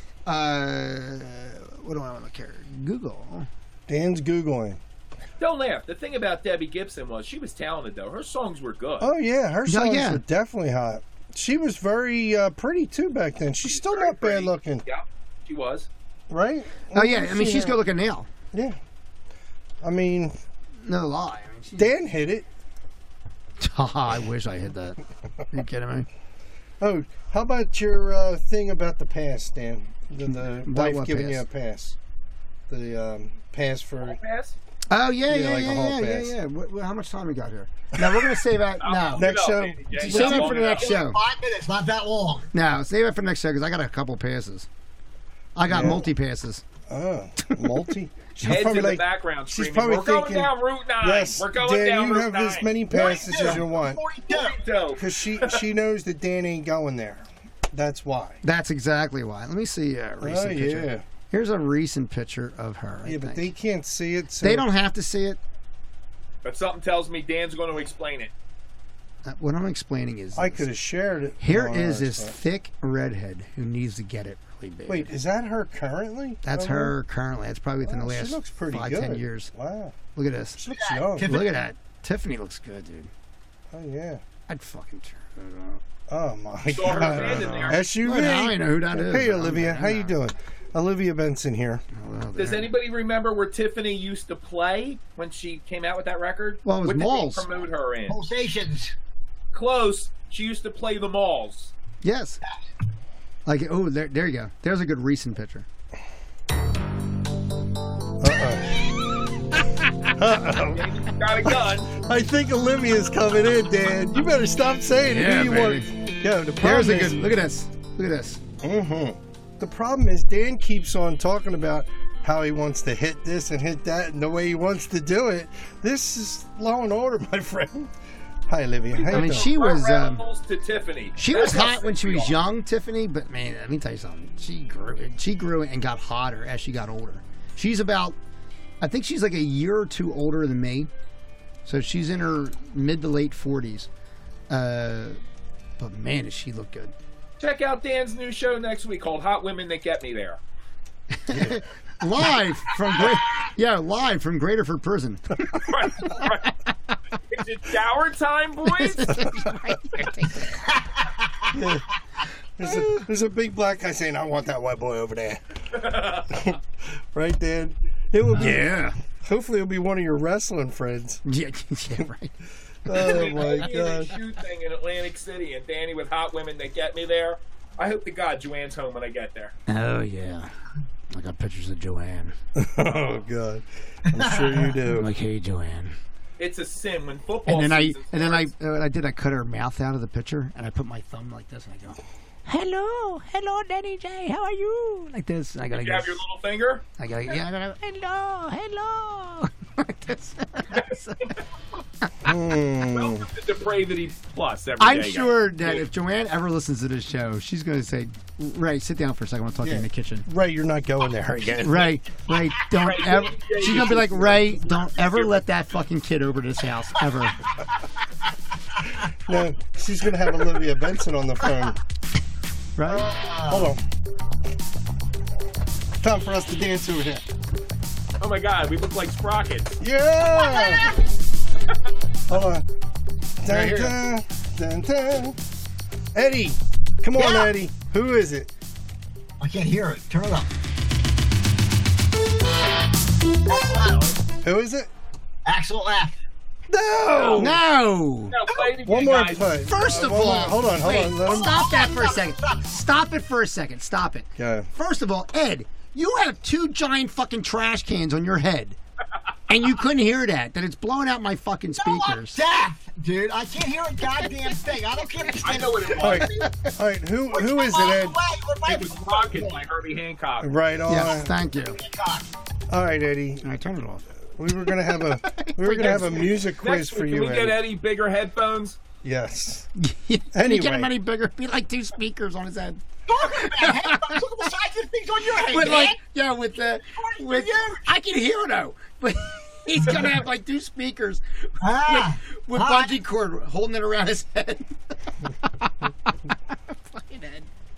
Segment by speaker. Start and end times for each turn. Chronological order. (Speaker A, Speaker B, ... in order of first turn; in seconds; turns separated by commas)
Speaker A: 0.2-3.5, Speaker B: 3.9-4.8, Speaker C: 5.4-9.1, Speaker B: 9.0-14.8, Speaker A: 9.7-10.2, Speaker C: 13.6-15.9, Speaker B: 16.3-17.8, Speaker A: 16.9-18.3, Speaker B: 19.8-20.4, Speaker A: 20.8-21.9, Speaker B: 21.8-22.4, Speaker A: 23.6-25.0, Speaker A: 25.5-26.1, Speaker B: 26.8-31.9, Speaker A: 30.2-31.4, Speaker B: 32.7-34.2, Speaker C: 34.0-34.5, Speaker A: 34.9-39.3, Speaker B: 35.2-36.3, Speaker B: 38.0-38.4, Speaker C: 38.8-41.0, Speaker B: 39.1-40.6, Speaker A: 40.0-41.2, Speaker D: 40.5-42.5, Speaker A: 42.5-44.7, Speaker A: 45.5-46.6, Speaker B: 45.7-46.1, Speaker B: 46.9-54.0, Speaker A: 47.4-47.8, Speaker C: 48.4-53.6, Speaker D: 52.9-54.6, Speaker C: 54.3-55.6, Speaker B: 55.0-58.4, Speaker A: 58.4-63.5, Speaker B: 60.2-61.0, Speaker B: 63.0-64.7, Speaker A: 64.4-65.4, Speaker C: 66.4-68.3, Speaker A: 69.2-70.7, Speaker B: 70.3-72.4, Speaker A: 71.4-75.1, Speaker B: 74.9-77.0, Speaker A: 76.4-79.5, Speaker B: 77.8-80.0, Speaker A: 80.1-80.6, Speaker B: 80.5-81.4, Speaker D: 80.7-81.6, Speaker A: 81.2-83.1, Speaker B: 83.7-84.2, Speaker A: 84.5-85.8, Speaker B: 86.1-91.8, Speaker C: 86.7-87.8, Speaker A: 87.5-90.1, Speaker A: 91.9-92.7, Speaker C: 92.4-98.2, Speaker A: 96.6-97.5, Speaker D: 98.1-98.9, Speaker C: 99.5-101.7, Speaker A: 102.0-102.4, Speaker A: 103.5-105.7, Speaker B: 108.2-108.7, Speaker A: 109.7-110.1, Speaker B: 110.2-110.8, Speaker C: 110.7-111.9, Speaker B: 111.4-117.3, Speaker A: 115.1-115.9, Speaker A: 116.6-118.4, Speaker B: 118.6-127.9, Speaker B: 128.5-129.5, Speaker C: 128.9-132.4, Speaker A: 129.1-130.2, Speaker A: 131.2-138.2, Speaker A: 138.8-140.9, Speaker A: 141.6-143.9, Speaker A: 144.5-145.2, Speaker A: 145.8-146.9, Speaker C: 147.4-150.4, Speaker A: 151.1-156.9, Speaker B: 151.3-151.6, Speaker C: 155.5-156.6, Speaker C: 157.3-159.3, Speaker A: 158.6-160.7, Speaker D: 160.8-161.5, Speaker B: 161.5-161.8, Speaker B: 162.6-165.4, Speaker A: 162.6-163.1, Speaker C: 165.7-166.5, Speaker B: 166.3-166.6, Speaker B: 167.1-171.2, Speaker A: 168.3-169.0, Speaker A: 171.2-172.3, Speaker B: 172.8-174.1, Speaker A: 172.9-173.6, Speaker C: 172.9-179.5, Speaker A: 179.7-180.5, Speaker A: 181.1-182.3, Speaker B: 182.6-185.1, Speaker D: 184.1-184.8, Speaker A: 184.9-185.9, Speaker C: 186.4-188.5, Speaker A: 187.5-196.2, Speaker C: 195.7-196.8, Speaker A: 197.0-201.3, Speaker C: 200.7-201.4, Speaker A: 202.0-202.3, Speaker B: 202.2-203.3, Speaker C: 202.9-205.8, Speaker A: 204.8-210.3, Speaker B: 209.6-211.9, Speaker A: 211.6-217.4, Speaker C: 212.7-215.4, Speaker B: 219.0-221.8, Speaker A: 222.8-223.1, Speaker D: 222.8-223.7, Speaker B: 223.5-223.8, Speaker B: 226.0-227.3, Speaker C: 228.2-229.8, Speaker B: 229.8-230.9, Speaker D: 230.4-231.0, Speaker B: 232.3-232.7, Speaker B: 233.4-235.4, Speaker A: 233.5-233.9, Speaker B: 236.1-238.5, Speaker D: 237.2-237.5, Speaker D: 239.4-240.5, Speaker D: 243.4-244.2, Speaker B: 244.4-244.9, Speaker D: 245.4-246.2, Speaker B: 246.7-247.6, Speaker C: 247.1-247.5, Speaker A: 247.3-248.3, Speaker C: 248.3-249.8, Speaker B: 248.8-251.6, Speaker A: 249.7-258.8, Speaker D: 251.2-252.7, Speaker B: 254.4-254.7, Speaker A: 259.5-262.4, Speaker D: 261.8-266.5, Speaker C: 265.4-266.3, Speaker B: 266.0-268.2, Speaker A: 266.3-266.5, Speaker D: 267.3-269.6, Speaker C: 268.6-270.5, Speaker B: 270.4-271.3, Speaker A: 270.9-271.8, Speaker D: 271.7-272.3, Speaker B: 272.7-273.4, Speaker A: 273.4-276.4, Speaker B: 274.4-277.6, Speaker C: 275.8-278.8, Speaker B: 279.0-279.7, Speaker A: 279.8-284.2, Speaker B: 280.3-280.9, Speaker D: 283.1-286.0, Speaker A: 285.4-297.5, Speaker D: 286.9-287.9, Speaker D: 289.8-290.2, Speaker D: 291.6-293.0